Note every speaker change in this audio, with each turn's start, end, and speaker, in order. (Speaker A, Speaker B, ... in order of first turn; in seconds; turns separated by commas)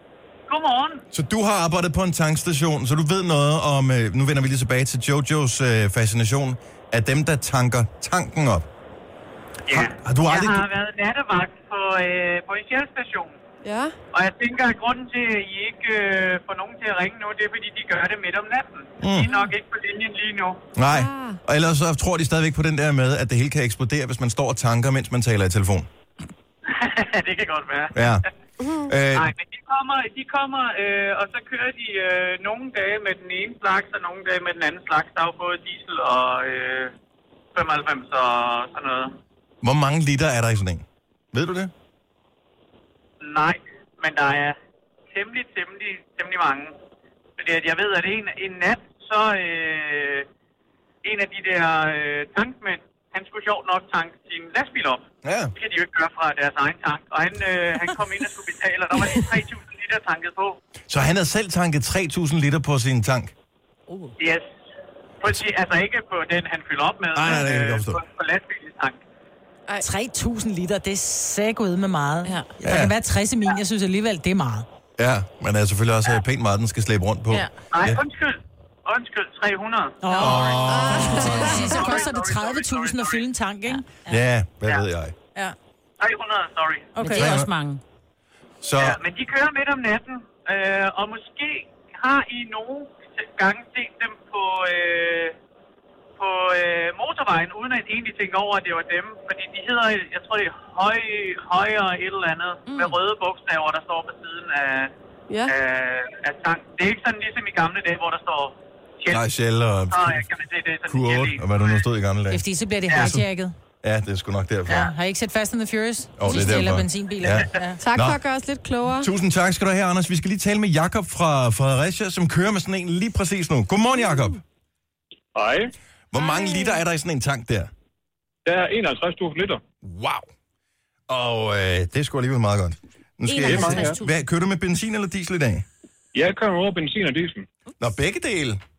Speaker A: 0.5-1.0, Speaker B: 1.1-8.7, Speaker A: 9.7-13.3, Speaker B: 9.7-10.7, Speaker C: 13.6-13.9, Speaker A: 14.1-20.6, Speaker B: 19.0-19.3, Speaker B: 20.8-25.9, Speaker C: 20.9-21.4, Speaker A: 26.6-28.3, Speaker B: 27.9-28.2, Speaker C: 28.6-28.9, Speaker B: 28.9-29.3, Speaker A: 29.1-36.9, Speaker A: 37.5-39.1, Speaker B: 39.6-41.7, Speaker A: 43.2-44.5, Speaker A: 45.1-46.7, Speaker A: 47.4-50.2, Speaker A: 51.0-55.0, Speaker B: 55.2-55.5, Speaker A: 55.6-60.6, Speaker B: 60.9-63.3, Speaker D: 63.9-64.1, Speaker A: 64.2-64.5, Speaker A: 65.2-69.0, Speaker B: 67.1-68.0, Speaker E: 69.8-74.7, Speaker D: 72.2-72.5, Speaker B: 72.6-72.9, Speaker B: 75.0-78.0, Speaker A: 77.7-83.2, Speaker E: 80.0-83.8, Speaker B: 80.2-81.6, Speaker C: 80.7-81.9, Speaker D: 83.7-84.2, Speaker B: 84.1-85.1, Speaker A: 86.0-86.9, Speaker E: 87.0-87.3, Speaker D: 87.0-87.8, Speaker B: 87.2-87.5, Speaker B: 88.6-89.0, Speaker A: 88.8-95.3, Speaker A: 96.2-104.9, Speaker D: 102.7-103.0, Speaker C: 105.3-105.5, Speaker A: 105.5-109.2, Speaker B: 109.1-110.2, Speaker A: 109.9-111.8, Speaker B: 110.9-113.2, Speaker E: 112.3-113.5, Speaker B: 113.8-114.9, Speaker E: 114.7-117.8, Speaker B: 116.2-118.2, Speaker C: 117.8-119.1, Speaker B: 119.0-124.4, Speaker F: 125.3-125.7, Speaker B: 126.1-127.7, Speaker F: 128.4-129.6, Speaker B: 129.8-130.3, Speaker B: 131.1-135.6, Speaker D: 133.2-134.1, Speaker F: 133.4-134.0, Speaker F: 136.1-137.4, Speaker B: 137.8-138.6